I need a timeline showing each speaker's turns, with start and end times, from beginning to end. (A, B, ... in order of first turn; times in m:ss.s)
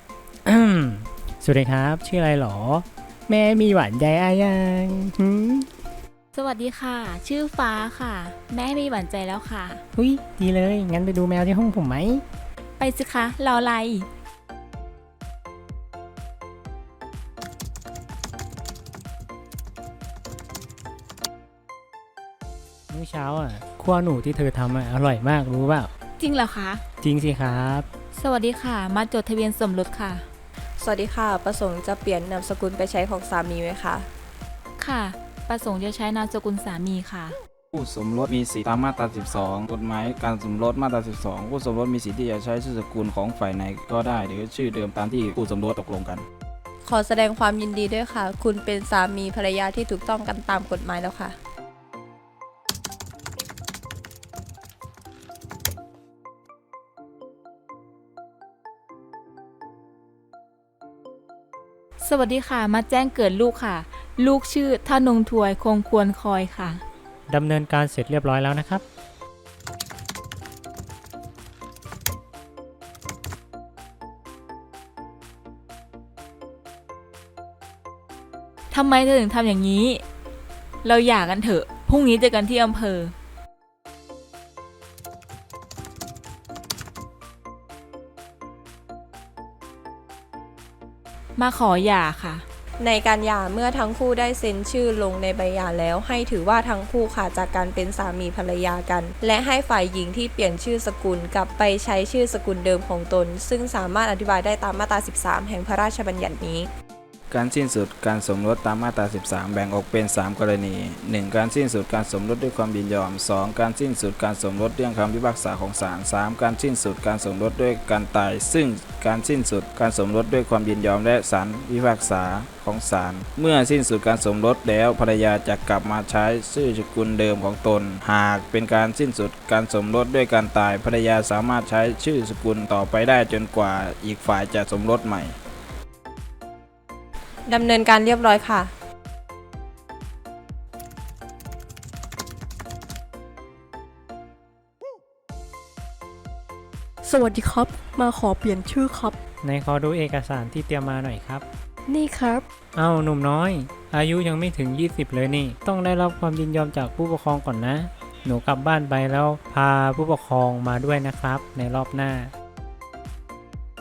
0:00.4-0:05.7 A
0:06.3-0:09.8 B
0:09.9-0:12.2 A
0:12.8-0:14.1 B
0:22.9-0:25.9 A
0:26.2-0:26.8 B
0:27.0-0:27.9 A
0:28.2-0:30.2 B
0:30.8-0:34.1 C
0:34.8-0:37.4 B
0:37.7-0:46.2 D
0:46.8-0:51.4 C
1:02.0-1:06.8 B
1:07.3-1:08.8 A
1:18.7-1:20.0 B
1:20.8-1:23.1 B
1:31.4-1:32.4 B
1:32.8-1:46.7 C
1:47.3-2:15.3 D
2:17.5-2:18.7 C
2:27.0-2:29.2 E
2:29.4-2:31.4 A
2:31.9-2:32.4 E
2:32.8-2:42.3 A